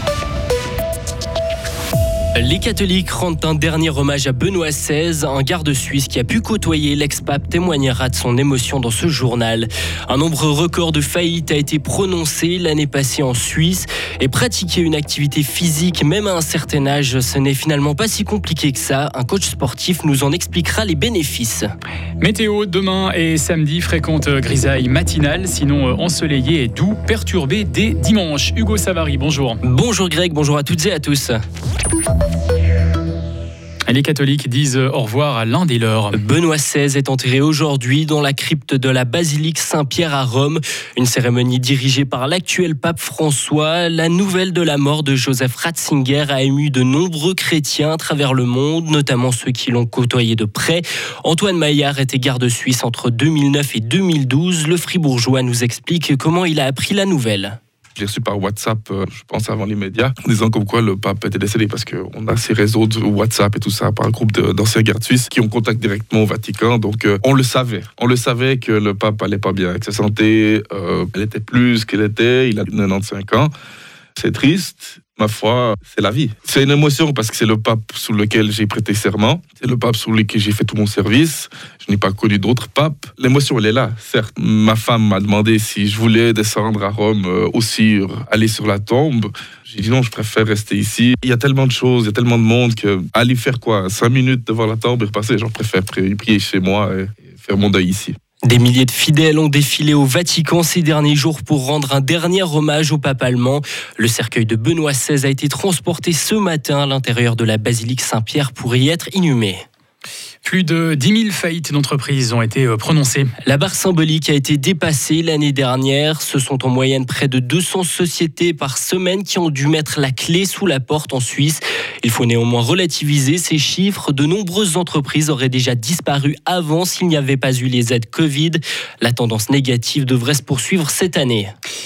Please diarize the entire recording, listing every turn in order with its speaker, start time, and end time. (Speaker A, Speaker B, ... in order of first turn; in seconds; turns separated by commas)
Speaker A: 2.4-21.7, Speaker B: 22.2-29.6, Speaker A: 29.6-31.4, Speaker B: 33.9-36.2, Speaker A: 36.1-57.6, Speaker C: 58.0-73.5, Speaker C: 74.2-98.2, Speaker A: 98.4-109.7, Speaker B: 110.4-113.3, Speaker A: 113.4-131.5